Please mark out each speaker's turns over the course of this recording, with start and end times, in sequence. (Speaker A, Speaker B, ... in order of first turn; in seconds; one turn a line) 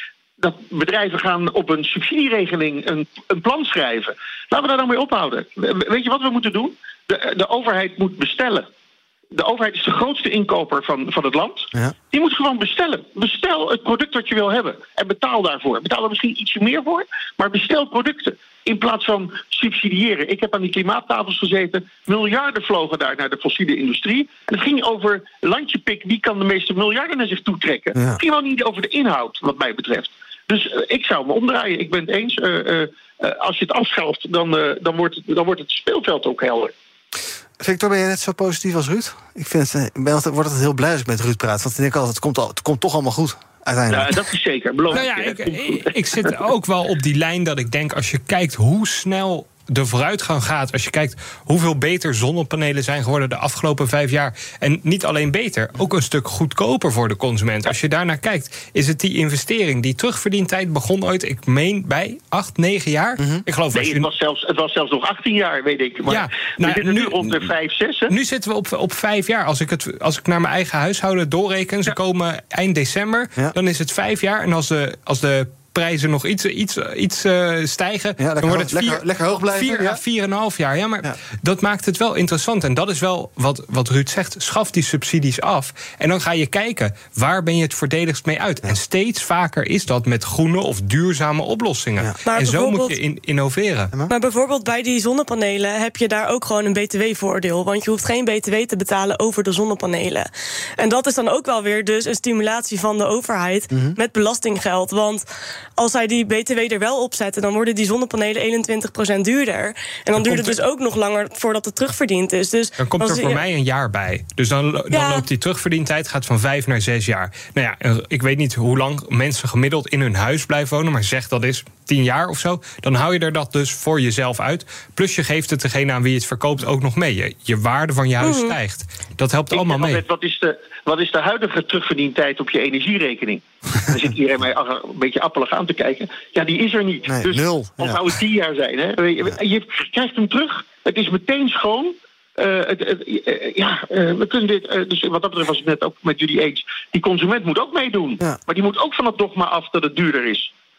Speaker A: 0.4-8.7
Speaker A: 9.3-36.7
Speaker B: 37.6-44.1
Speaker A: 43.9-46.3
Speaker C: 44.9-64.1
Speaker B: 63.2-63.4
Speaker A: 63.7-68.1
Speaker C: 66.0-67.5
Speaker C: 68.1-93.9
Speaker B: 78.2-80.0
Speaker D: 92.2-93.0
Speaker D: 94.1-105.2
Speaker B: 103.7-104.0
Speaker D: 105.8-113.4
Speaker C: 110.1-110.6
Speaker C: 112.8-130.0
Speaker D: 114.9-115.2
Speaker D: 128.2-128.5
Speaker A: 129.5-150.5
Speaker B: 137.1-138.0